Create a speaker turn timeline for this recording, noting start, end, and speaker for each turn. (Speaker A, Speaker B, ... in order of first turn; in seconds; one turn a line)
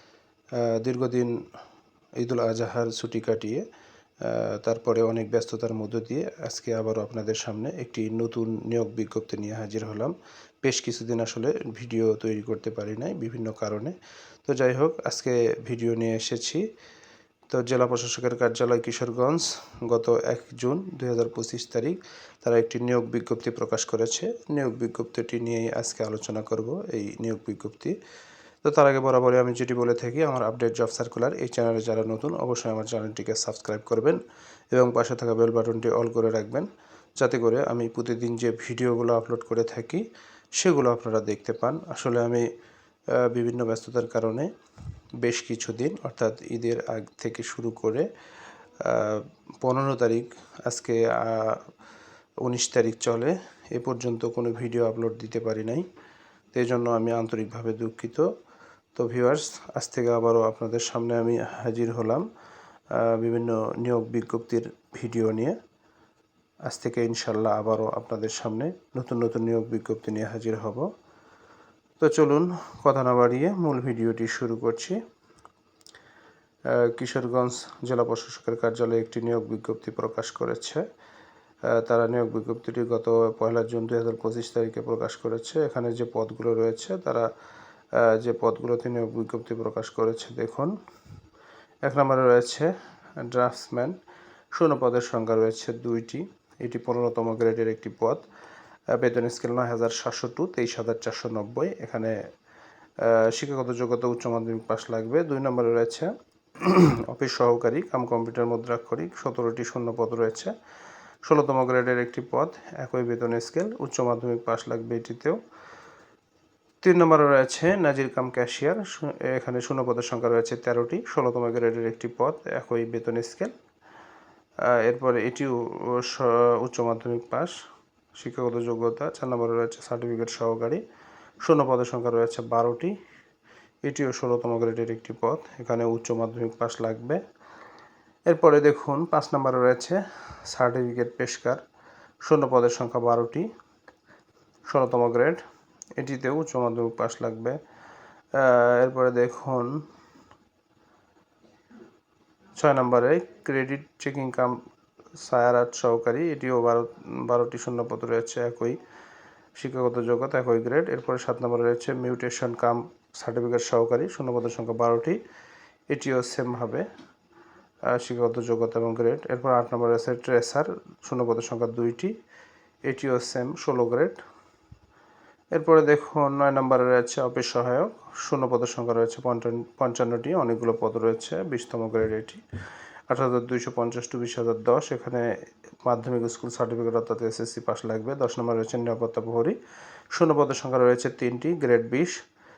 Speaker A: 0.6-1.4
Speaker A: 2.2-3.6
Speaker A: 4.2-16.6
Speaker A: 17.5-27.9
Speaker A: 28.6-34.2
Speaker A: 34.7-42.5
Speaker A: 43.1-44.5
Speaker A: 45.2-48.1
Speaker A: 48.8-51.6
Speaker A: 52.4-55.9
Speaker A: 56.5-58.3
Speaker A: 59.0-62.3
Speaker A: 62.9-65.6
Speaker A: 66.7-70.9
Speaker A: 72.0-75.0
Speaker A: 76.7-80.8
Speaker A: 81.7-87.3
Speaker A: 87.9-90.7
Speaker A: 91.8-94.0
Speaker A: 94.5-98.2
Speaker A: 98.9-102.2
Speaker A: 103.0-110.5
Speaker A: 111.2-115.4
Speaker A: 116.8-123.5
Speaker A: 124.6-127.6
Speaker A: 128.1-130.8
Speaker A: 131.4-133.0
Speaker A: 133.8-137.2
Speaker A: 138.2-141.6
Speaker A: 142.2-143.5
Speaker A: 144.7-145.4
Speaker A: 146.0-147.6
Speaker A: 148.3-149.8
Speaker A: 152.6-154.6
Speaker A: 155.2-158.8
Speaker A: 159.5-165.2
Speaker A: 165.9-166.8
Speaker A: 167.9-172.1
Speaker A: 172.8-174.2
Speaker A: 175.5-182.4
Speaker A: 183.1-185.3
Speaker A: 185.8-189.6
Speaker A: 190.1-192.2